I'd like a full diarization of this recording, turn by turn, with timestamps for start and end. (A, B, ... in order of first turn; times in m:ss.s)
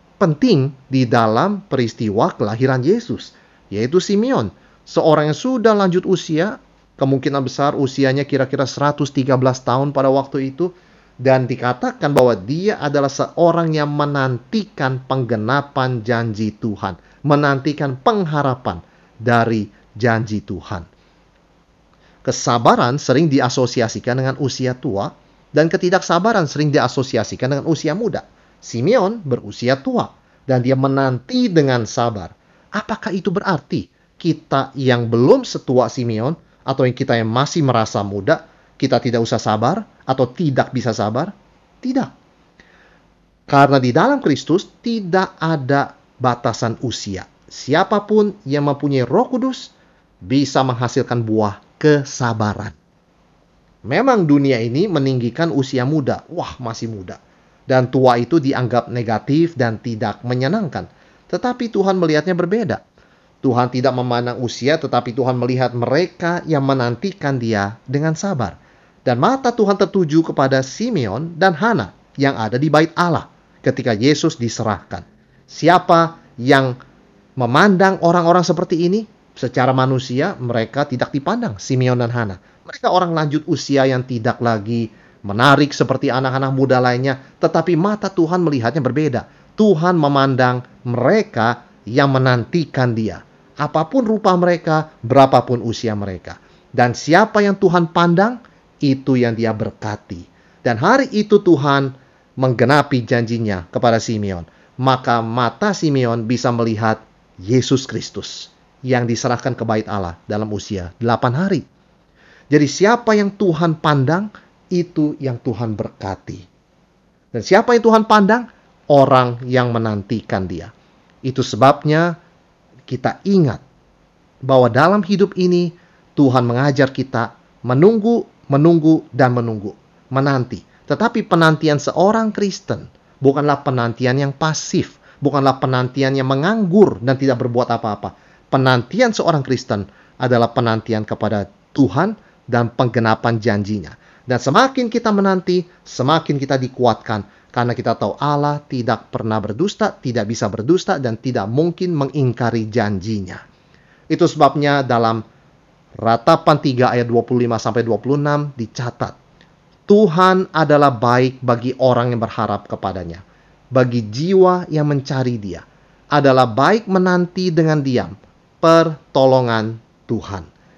0:00.2-0:20.9 A
0:22.2-0:42.1 A
0:43.5-0:49.7 A
0:50.2-0:52.8 A
0:53.9-1:02.8 A
1:03.4-1:16.8 A
1:17.4-1:51.7 A
1:52.5-1:56.5 A
1:57.3-2:00.7 A
2:01.2-2:02.2 A
2:02.9-2:03.6 A
2:04.4-2:33.4 A
2:34.1-2:35.2 A
2:36.0-2:39.2 A
2:39.9-2:50.5 A